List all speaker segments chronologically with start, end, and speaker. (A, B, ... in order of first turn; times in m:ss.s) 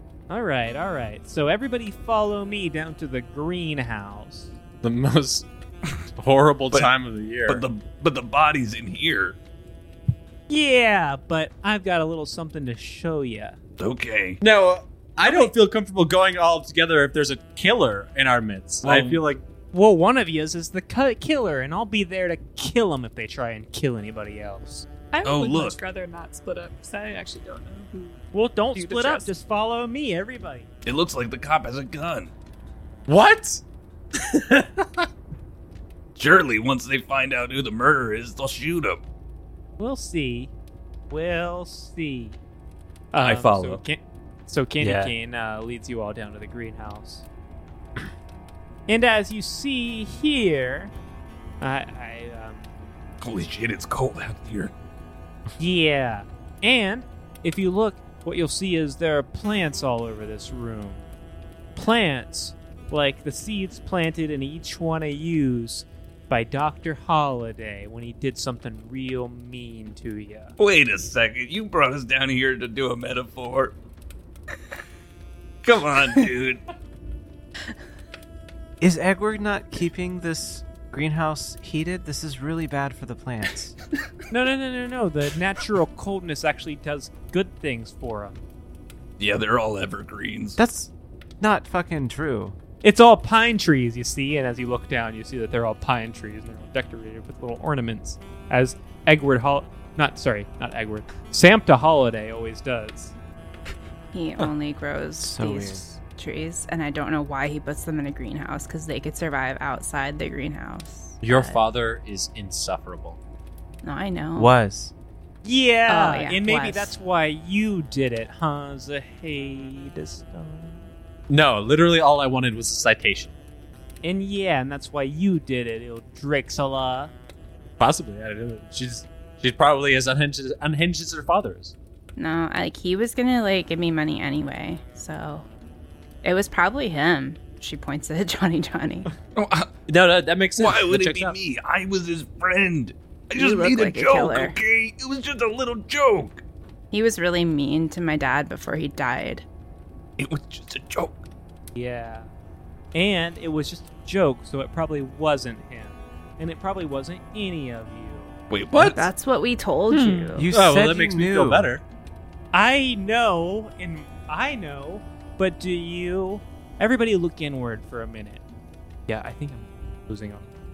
0:00.3-0:04.5 A
0:04.8-0:05.5 B
0:06.2-0:07.7 B
0:07.5-0:09.4 C
0:10.5-0:13.6 A
0:13.8-0:14.4 C
0:14.4-0:19.4 B
0:18.8-0:19.2 C
0:19.7-0:24.9 A
0:25.1-0:28.2 D
0:25.2-0:25.8 C
0:28.3-0:30.7 A
0:28.8-0:29.3 D
0:30.9-0:32.3 C
0:33.1-0:33.6 B
0:34.2-0:35.1 B
0:36.2-0:39.0 C
0:39.8-0:40.5 A
0:41.1-0:42.4 A
0:43.1-0:47.3 A
0:43.2-0:43.8 C
0:44.8-0:45.1 E
0:48.9-0:50.9 A
0:51.6-0:52.7 A
0:53.2-0:54.7 C
0:55.6-1:01.1 A
1:01.8-1:10.6 A
1:10.6-1:13.8 C
1:15.6-1:16.6 C
1:18.8-1:23.8 E
1:24.3-1:28.4 A
1:29.2-1:30.6 C
1:30.6-1:32.6 E
1:32.8-1:43.1 A
1:44.1-1:51.6 F
1:45.2-1:45.9 E
1:51.2-1:53.2 B
1:53.8-1:54.5 F
1:54.4-1:54.9 E
1:55.4-2:00.8 A
1:55.9-1:57.0 F
2:01.3-2:03.4 B
2:04.0-2:07.1 A
2:07.8-2:11.8 B
2:12.2-2:15.5 F
2:16.2-2:19.2 F
2:19.4-2:19.7 C
2:19.9-2:21.4 B
2:20.6-2:26.4 C
2:23.4-2:24.6 F
2:26.9-2:29.5 F
2:30.2-2:31.2 C
2:31.8-2:32.3 A
2:32.9-2:38.4 A
2:38.5-2:39.1 C
2:38.7-2:39.0 B
2:38.9-2:40.5 F
2:39.9-2:40.4 D
2:40.4-2:41.7 E
2:40.5-2:41.8 B
2:42.5-2:48.4 A
2:49.1-2:50.5 A